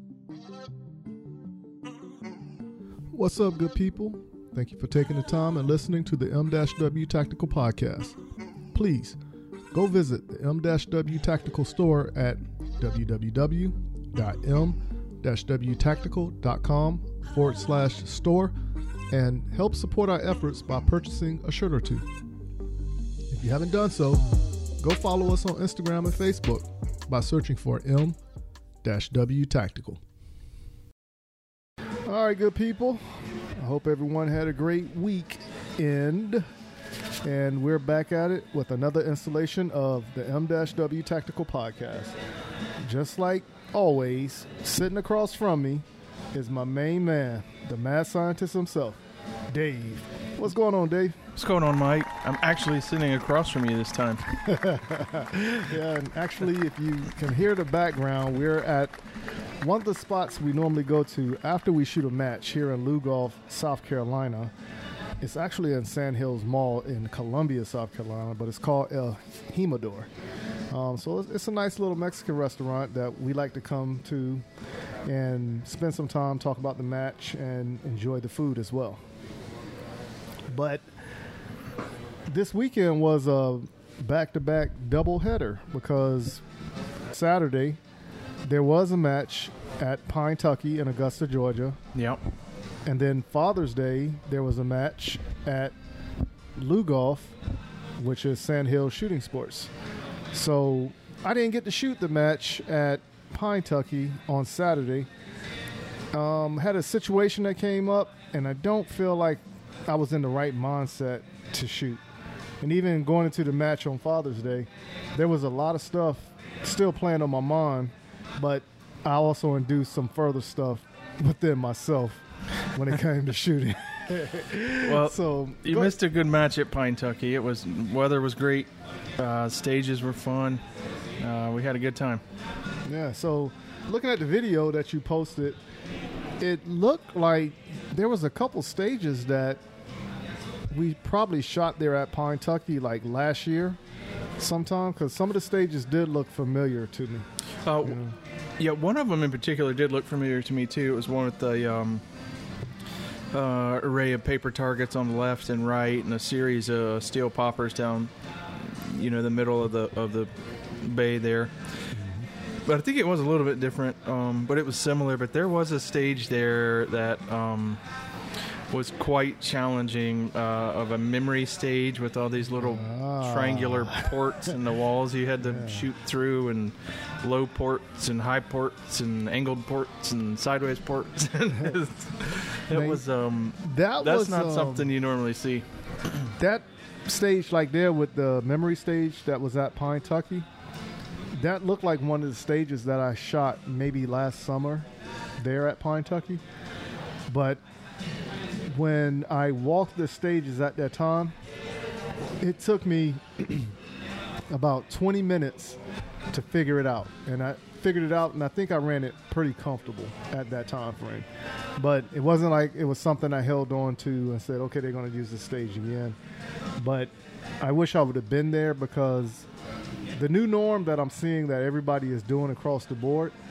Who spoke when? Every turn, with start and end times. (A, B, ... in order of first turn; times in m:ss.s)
0:03.1-0:08.2 A
0:08.7-0:09.2 A
0:09.7-0:18.5 A
0:19.1-0:22.1 A
0:23.3-0:24.2 A
0:24.8-0:28.2 A
0:28.8-0:30.0 A
0:32.0-0:36.4 A
0:37.2-0:42.2 A
0:42.8-0:51.2 A
0:51.4-0:54.2 B
0:54.4-0:59.0 A
0:59.6-1:04.5 A
1:05.2-1:10.1 A
1:10.7-1:14.4 A
1:15.0-1:19.0 A
1:20.5-1:20.8 A
1:22.3-1:26.4 A
1:27.1-1:27.8 A
1:28.4-1:31.8 A
1:31.9-1:32.2 B
1:32.8-1:35.7 A
1:36.6-1:37.3 A
1:38.0-1:39.7 A
1:40.3-1:45.1 A
1:46.1-1:52.0 A
1:52.6-2:06.0 A
2:04.8-2:10.6 B
2:11.2-2:12.2 B
2:12.8-2:15.6 A
2:16.4-2:19.6 A
2:20.7-2:23.8 A
2:24.4-2:27.3 A
2:27.6-2:28.0 B
2:27.8-2:28.1 A
2:28.6-2:32.0 B
2:33.3-2:41.5 B
2:41.9-2:42.3 A
2:42.6-2:47.8 B
2:48.7-3:05.6 B
2:52.5-2:54.5 A
2:55.4-2:55.9 A
3:02.7-3:03.0 A
3:03.6-3:04.9 A
3:06.4-3:10.5 A
3:11.3-3:14.9 A
3:15.4-3:16.4 A
3:17.3-3:17.6 A
3:18.7-3:21.4 A
3:22.4-3:23.7 A
3:24.5-3:31.3 A
3:31.8-3:36.2 A
3:36.8-3:39.5 A
3:40.2-3:43.3 A